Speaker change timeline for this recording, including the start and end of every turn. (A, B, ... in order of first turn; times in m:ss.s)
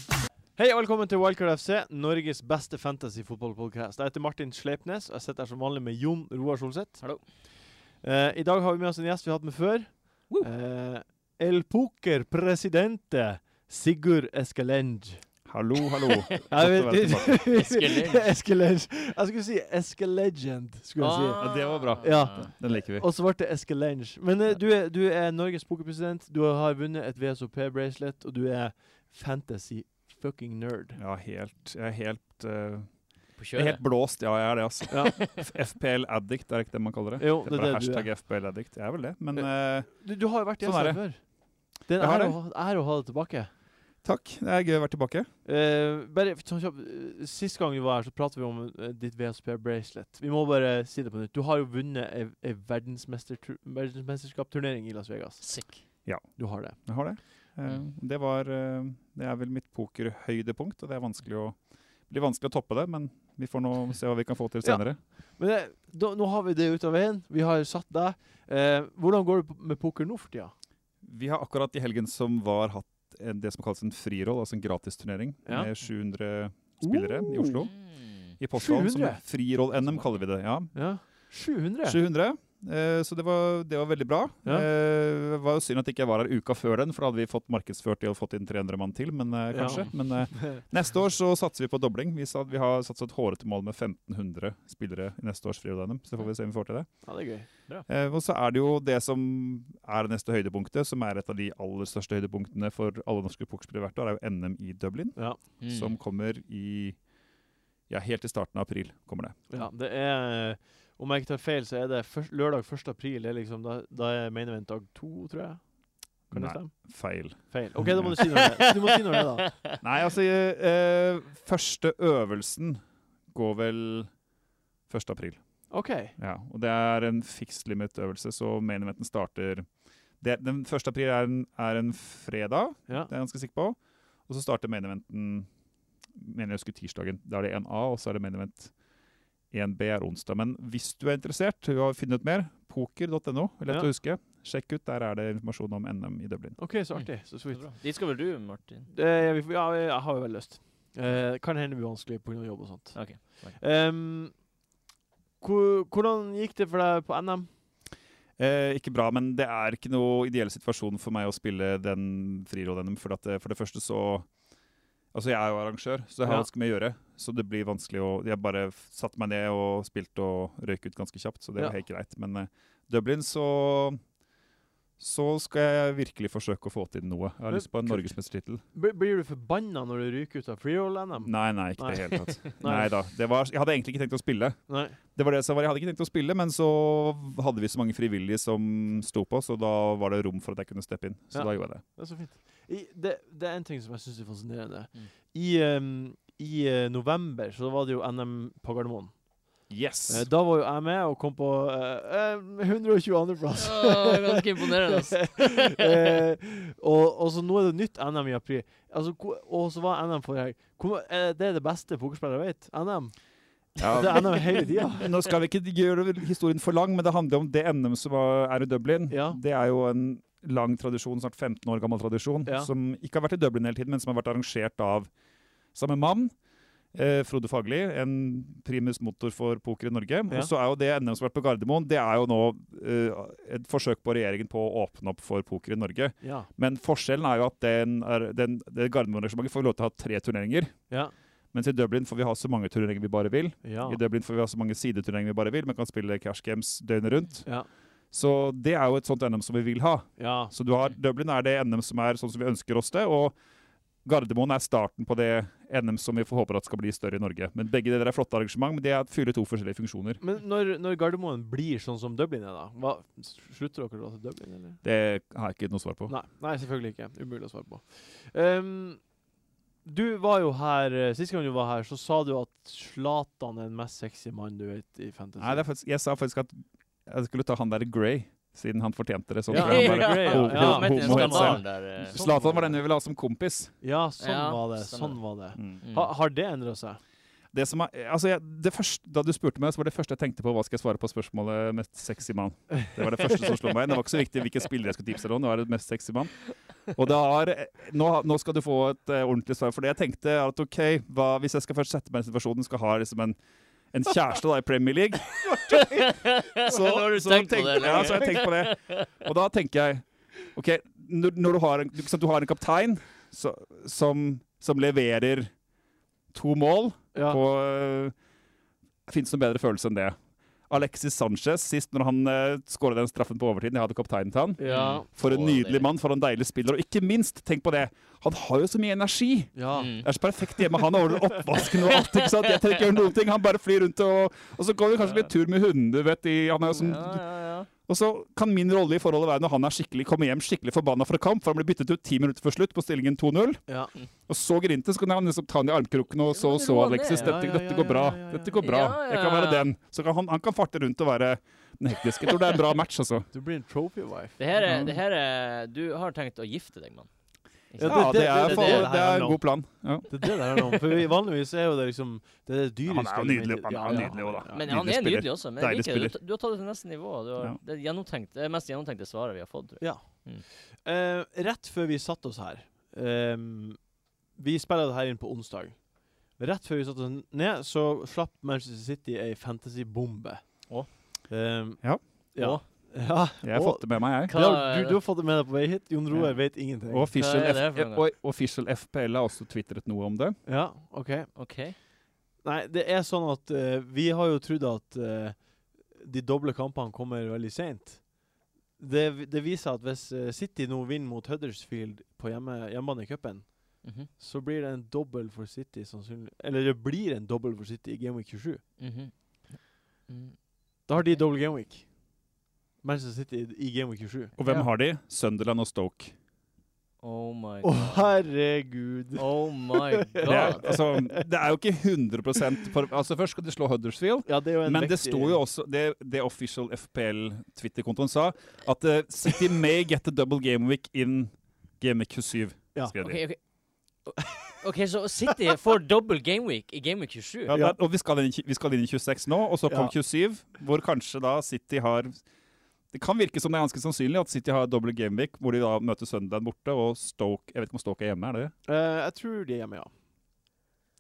0:00.6-0:07.1 A
0:08.0-0:15.2 A
0:15.5-0:17.4 B
0:16.0-0:16.4 C
0:16.5-0:31.0 A
0:17.0-0:18.3 C
0:21.0-0:22.5 C
0:21.4-0:23.1 B
0:31.0-0:32.9 B
0:33.4-0:33.8 C
0:33.5-0:40.0 B
0:34.9-0:35.2 A
0:35.0-0:35.4 C
0:37.2-0:38.1 A
0:39.3-0:43.5 A
0:40.6-0:41.0 B
0:42.0-0:42.4 B
0:44.0-0:45.3 B
0:45.4-0:55.5 A
0:55.4-0:55.8 C
0:56.0-1:01.6 B
0:56.4-0:56.8 A
1:02.1-1:05.0 B
1:04.6-1:10.5 A
1:11.0-1:17.8 B
1:15.5-1:15.7 A
1:16.8-1:17.6 A
1:17.6-1:18.4 C
1:18.3-1:20.7 B
1:18.5-1:19.2 A
1:19.9-1:20.2 C
1:20.7-1:22.0 A
1:21.8-1:37.1 B
1:29.5-1:30.6 A
1:37.0-1:37.8 A
1:37.9-1:47.0 B
1:45.6-1:45.9 C
1:47.9-1:49.4 B
1:49.5-1:55.6 A
1:56.3-1:59.5 A
1:56.3-1:58.2 B
1:58.2-1:58.8 C
1:59.4-1:59.8 C
1:59.8-2:02.8 B
2:03.3-2:04.1 B
2:04.9-2:05.7 B
2:05.7-2:06.2 A
2:06.2-2:09.7 B
2:10.2-2:13.8 B
2:14.3-2:15.5 B
2:16.2-2:18.7 B
2:19.5-2:26.6 B
2:26.6-2:27.7 A
2:27.0-2:28.9 C
2:28.9-2:34.4 A
2:32.9-2:33.6 C
2:35.4-2:37.5 A
2:38.4-2:44.3 B
2:45.1-2:54.0 B
2:55.0-2:58.6 B
2:57.5-2:58.1 A
2:58.7-3:02.9 A
3:01.2-3:11.8 B
3:04.7-3:05.0 A
3:11.3-3:19.2 A
3:19.7-3:20.3 B
3:20.1-3:33.2 A
3:23.6-3:25.9 C
3:33.8-3:35.1 A
3:33.8-3:45.1 B
3:39.1-3:39.4 A
3:42.4-3:42.7 A
3:45.7-3:46.3 B
3:46.9-4:00.8 B
3:56.2-3:56.5 A
4:01.5-4:07.5 B
4:03.6-4:04.0 A
4:08.1-4:13.4 B
4:10.2-4:10.5 A
4:14.0-4:20.2 B
4:20.2-4:24.8 A
4:24.8-4:26.1 B
4:26.1-4:29.0 A
4:29.8-4:35.6 A
4:35.4-4:43.7 B
4:39.5-4:42.7 A
4:39.5-4:42.7 C
4:43.8-4:47.0 A
4:44.2-4:45.2 C
4:45.8-4:46.1 C
4:47.5-5:03.4 B
5:03.9-5:15.5 B
5:05.7-5:09.1 C
5:16.3-5:18.1 B
5:17.1-5:17.4 A
5:19.1-5:20.2 B
5:20.7-5:37.3 B
5:24.6-5:25.1 A
5:24.7-5:25.9 C
5:29.6-5:29.9 A
5:29.8-5:30.1 C
5:31.8-5:32.7 C
5:36.7-5:37.7 C
5:37.8-5:43.6 B
5:43.7-5:43.9 A
5:44.3-5:53.3 B
5:46.3-5:47.4 C
5:47.2-5:48.6 A
5:48.6-5:49.7 C
5:53.3-5:54.4 A
5:54.4-5:57.1 C
5:54.6-5:55.0 B
5:57.7-5:58.9 C
5:57.8-5:59.4 A
5:57.8-6:00.1 B
6:00.1-6:04.6 A
6:02.9-6:06.2 B
6:03.9-6:10.4 C
6:09.8-6:13.8 A
6:14.4-6:15.8 A
6:16.4-6:27.1 A
6:22.4-6:22.6 C
6:23.4-6:24.3 B
6:24.3-6:25.0 C
6:26.2-6:30.4 B
6:27.1-6:28.0 C
6:30.5-6:31.3 A
6:31.4-6:31.8 C
6:32.4-6:35.4 A
6:35.9-6:38.0 A
6:38.8-6:48.6 A
6:43.8-6:44.1 C
6:48.8-6:50.4 C
6:50.9-6:51.9 A
6:52.8-6:54.4 A
6:54.4-6:56.1 B
6:54.4-6:54.7 C
6:57.0-6:58.1 C
6:57.6-7:01.2 A
6:59.2-7:00.8 C
7:00.2-7:13.2 B
7:04.2-7:05.4 A
7:13.0-7:13.4 C
7:14.0-7:17.6 C
7:17.5-7:17.8 A
7:17.5-7:22.2 B
7:19.7-7:19.9 A
7:22.9-7:28.5 B
7:28.7-7:29.9 A